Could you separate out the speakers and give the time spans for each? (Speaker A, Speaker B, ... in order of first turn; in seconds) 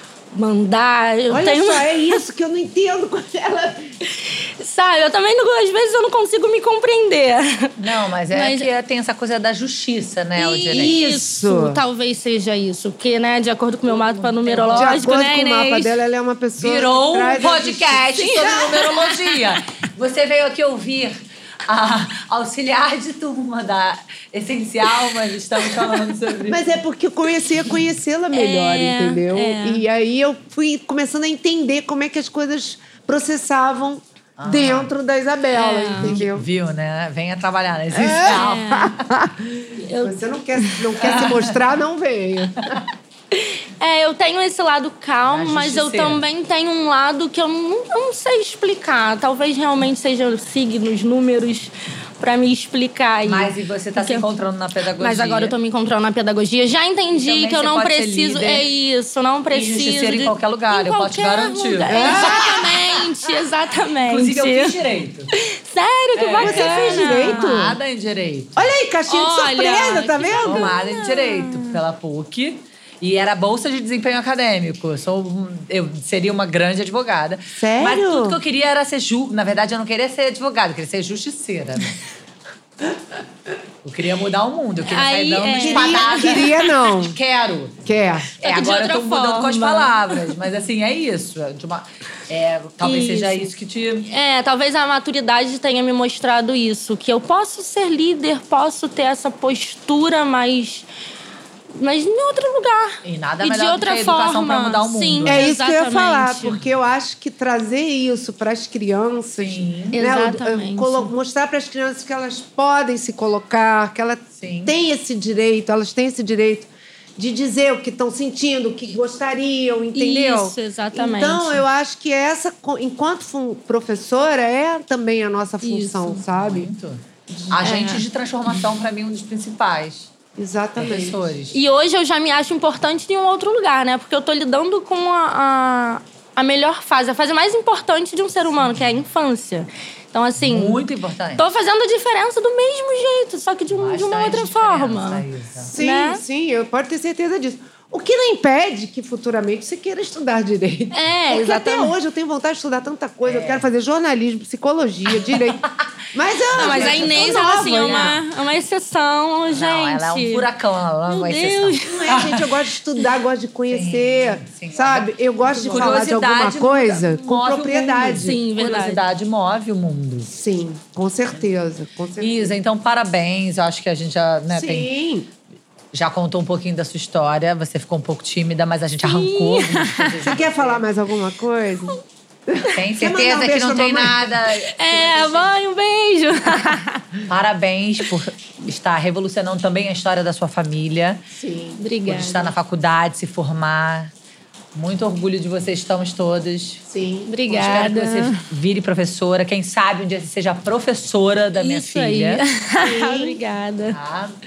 Speaker A: 0.3-2.2, 4.1-7.7, 8.3-8.7, 10.4-15.9, 18.1-19.3, 28.3-29.8, 35.5-36.2, 38.2-38.9, 39.8-41.2, 43.3-54.2, 55.0-64.8, 65.3-67.5, 69.1-71.8, 84.8-86.5, 88.4-90.2, 92.8-93.5, 94.1-100.9, 101.7-106.6, 109.9-111.1, 119.9-121.6, 125.6-126.2, 127.6-128.0, 131.5-140.8, 141.4-145.2, 145.8-146.2, 150.9-151.9, 156.6-160.5, 161.1-162.1, 165.4-166.1, 168.2-169.0, 179.0-180.4, 184.8-187.1, 191.8-192.5, 197.3-198.4, 201.6-204.0
Speaker B: 1.3-3.9, 10.7-11.8, 14.7-18.8, 26.5-36.4, 37.9-42.8, 61.9-62.7, 66.4-67.8, 68.5-70.7, 77.5-78.4, 85.5-87.2, 87.8-88.3, 105.2-126.7, 127.3-127.6, 130.4-131.2, 145.6-155.6, 156.1-158.2, 161.8-168.4, 170.2-172.5, 174.5-175.3, 180.2-182.0, 182.5-184.3, 191.3-191.8, 196.9-197.9, 202.8-203.4
Speaker C: 7.8-10.9, 13.9-15.0, 16.6-26.8, 34.4-34.9, 36.0-38.9, 41.0-41.5, 45.3-46.2, 53.2-55.5, 57.1-58.7, 59.5-62.7, 64.0-65.3, 66.1-68.6, 70.4-82.0, 83.8-87.8, 88.4-94.1, 103.0-105.5, 109.4-110.0, 114.4-114.8, 126.3-130.1, 130.8-131.6, 140.4-141.4, 143.7-145.7, 153.2-153.7, 156.5-158.2, 159.5-162.6, 163.7-170.3, 172.2-174.9, 175.9-180.8, 182.8-185.5, 187.2-191.2, 192.1-194.1, 194.7-196.8, 197.6-202.4, 203.9-204.4